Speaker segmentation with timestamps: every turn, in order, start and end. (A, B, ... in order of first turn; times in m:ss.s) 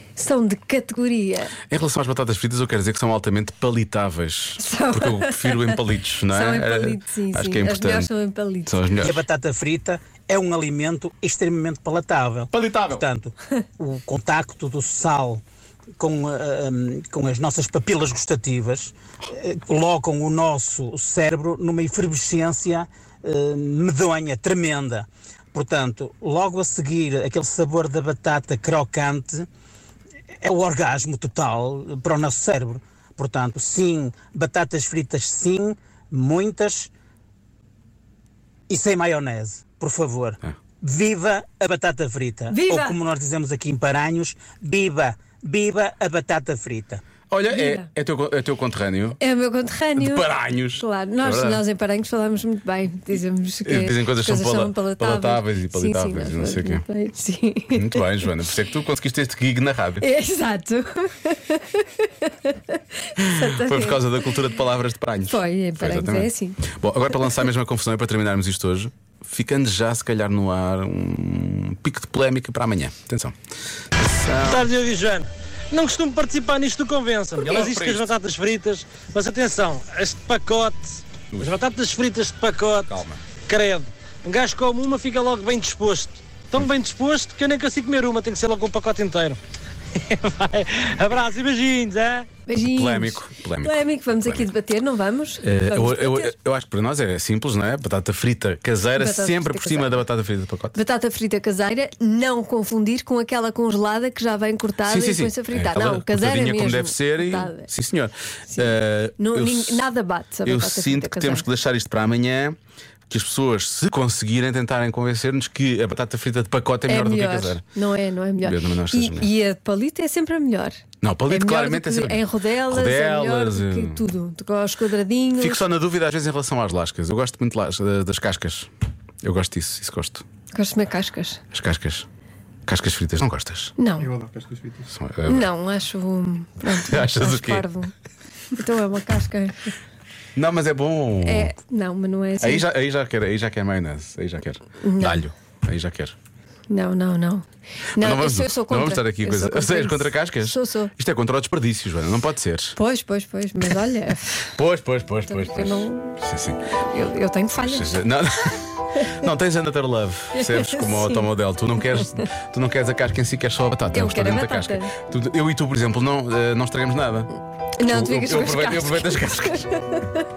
0:00.2-0:01.5 A
0:01.7-0:08.1 B
0:04.6-0:08.8 A
0:08.7-0:09.2 B
0:09.0-0:15.4 C
0:12.5-0:13.0 B
0:16.0-0:29.5 C
0:30.4-0:36.9 C
0:38.7-0:47.0 C
0:42.5-0:43.0 A
0:47.3-0:49.2 B
0:47.5-0:47.9 A
0:49.2-0:58.0 A
0:50.0-0:51.6 B
0:53.6-0:56.8 B
0:57.7-1:00.0 B
1:00.0-1:04.4 A
1:03.2-1:13.3 B
1:05.2-1:06.6 A
1:14.0-1:14.7 B
1:14.4-1:29.4 D
1:17.4-1:18.1 B
1:22.8-1:23.2 B
1:29.9-1:32.3 D
1:32.5-1:36.3 A
1:32.5-1:34.5 B
1:35.4-1:40.8 B
1:39.0-1:40.0 A
1:40.7-1:47.7 A
1:44.8-1:49.9 B
1:49.2-1:51.4 A
1:50.4-1:52.6 B
1:53.1-1:57.6 B
1:56.9-2:05.6 A
1:58.4-1:59.3 B
2:01.0-2:04.0 B
2:05.4-2:08.7 B
2:09.2-2:10.2 B
2:10.5-2:11.4 A
2:11.5-2:12.1 B
2:12.7-2:13.7 B
2:13.8-2:14.2 A
2:14.8-2:15.5 B
2:15.3-2:17.9 A
2:16.7-2:17.7 B
2:18.5-2:19.7 A
2:20.3-2:21.5 B
2:21.2-2:22.6 A
2:22.4-2:26.2 B
2:24.8-2:25.2 A
2:26.7-2:30.9 A
2:28.0-2:32.8 B
2:32.8-2:34.6 A
2:34.6-2:36.6 B
2:35.3-2:36.2 A
2:36.7-2:38.0 A
2:37.5-2:47.3 B
2:40.3-2:42.3 A
2:43.9-2:44.9 A
2:47.8-2:50.2 A
2:47.8-2:49.7 B